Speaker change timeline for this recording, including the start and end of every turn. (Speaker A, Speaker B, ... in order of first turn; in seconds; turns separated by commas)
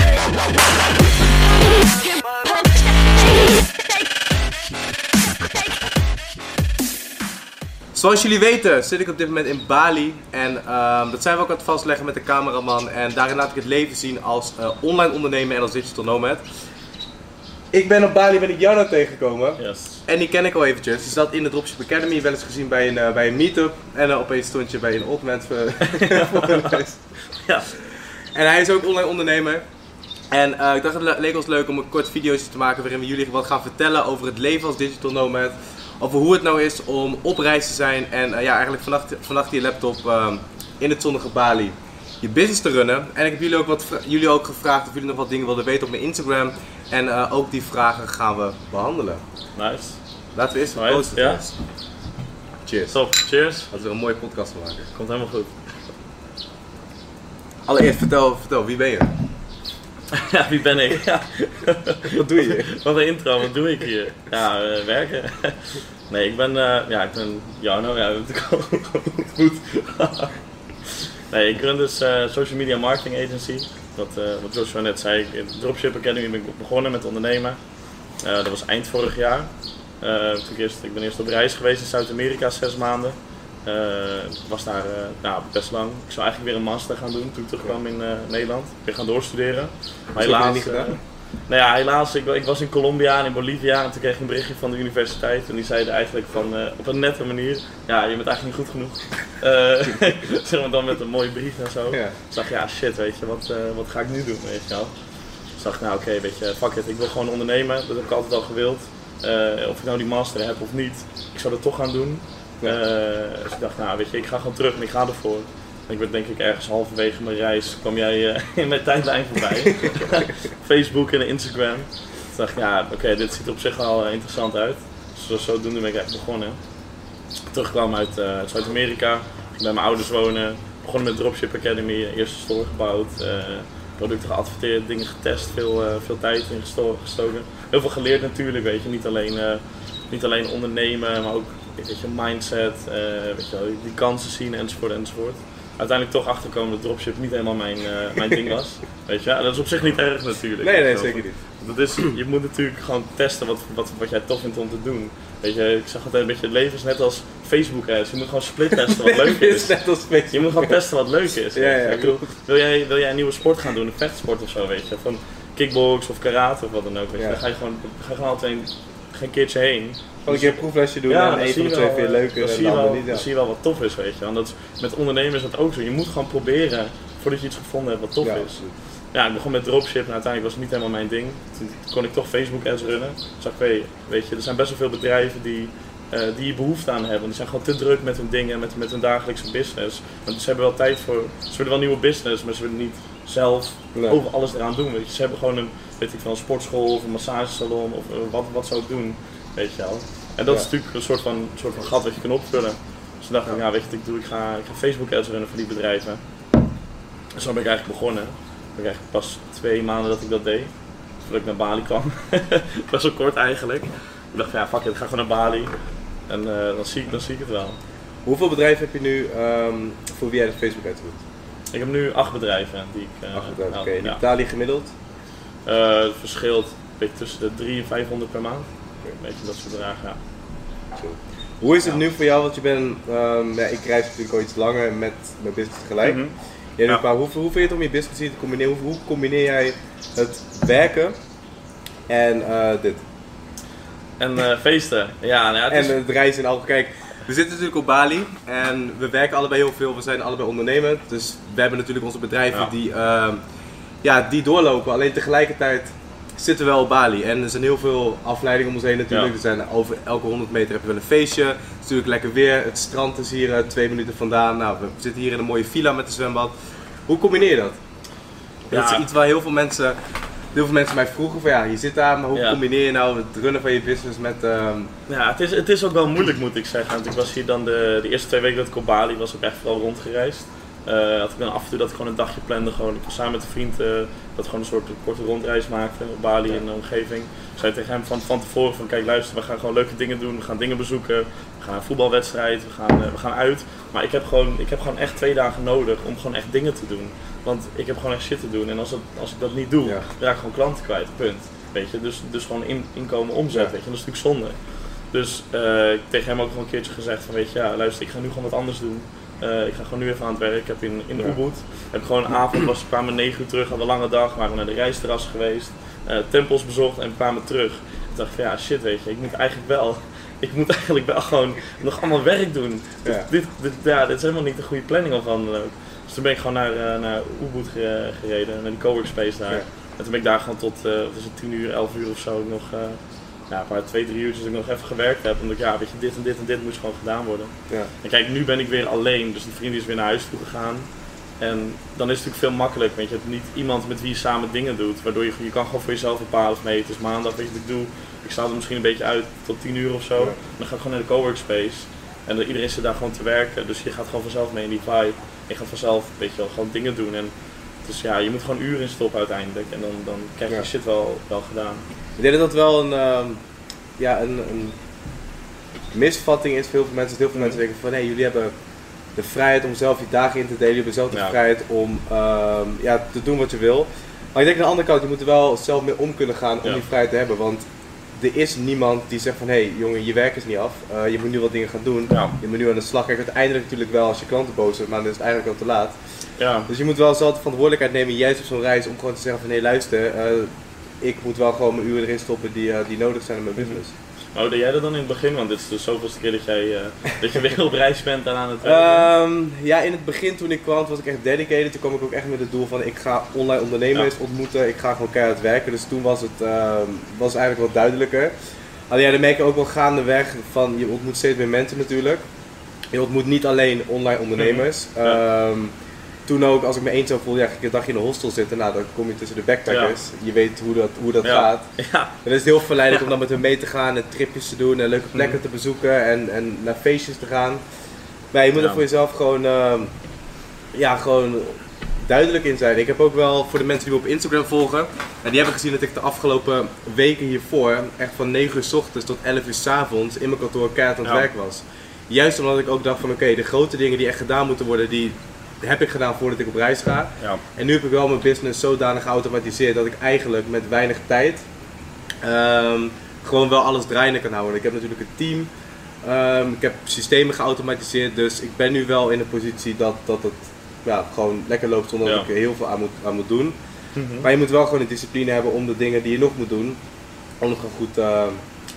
Speaker A: 7.9-16.4, Speaker A: 17.7-27.1, Speaker B: 19.6-20.0, Speaker B: 25.9-26.8, Speaker B: 27.4-27.7, Speaker A: 27.7-29.6, Speaker A: 30.3-49.2, Speaker B: 49.5-51.4, Speaker A: 50.3-51.5, Speaker A: 52.6-53.1, Speaker B: 52.9-53.7, Speaker A: 53.7-54.9, Speaker B: 54.9-55.6, Speaker A: 57.6-59.1, Speaker B: 60.1-126.6, Speaker A: 62.1-62.7, Speaker A: 90.2-91.0, Speaker A: 101.9-102.2, Speaker B: 127.4-159.7, Speaker A: 150.6-151.4, Speaker A: 158.8-160.8, Speaker B: 160.3-206.2, Speaker A: 161.5-162.3, Speaker A: 170.2-173.2, Speaker A: 178.2-178.7, Speaker A: 193.9-194.2, Speaker B: 207.3-217.8, Speaker A: 218.2-221.2, Speaker B: 221.7-224.2, Speaker A: 223.3-224.9, Speaker B: 225.6-230.2, Speaker A: 230.9-236.2, Speaker B: 236.0-236.3, Speaker A: 236.8-241.2, Speaker A: 242.1-243.0, Speaker B: 244.2-246.0, Speaker A: 245.7-253.4, Speaker A: 254.0-266.5, Speaker A: 267.1-267.8, Speaker A: 268.7-270.0, Speaker B: 268.7-269.0, Speaker A: 270.5-274.9, Speaker B: 272.3-272.6, Speaker B: 275.1-361.8, Speaker A: 362.2-363.4, Speaker A: 364.0-364.8, Speaker A: 365.9-368.5, Speaker A: 369.1-393.9, Speaker B: 382.1-382.3, Speaker B: 386.4-386.7, Speaker B: 394.3-399.1, Speaker A: 398.6-408.3, Speaker A: 408.9-412.2, Speaker A: 412.9-415.7, Speaker B: 414.4-415.2, Speaker A: 416.2-427.6, Speaker B: 419.7-419.9, Speaker B: 421.2-422.2, Speaker A: 428.3-429.9, Speaker B: 428.6-428.8, Speaker A: 430.7-451.5, Speaker A: 452.2-455.5, Speaker A: 456.0-463.6, Speaker B: 463.9-464.3, Speaker A: 464.2-466.8, Speaker A: 467.4-468.4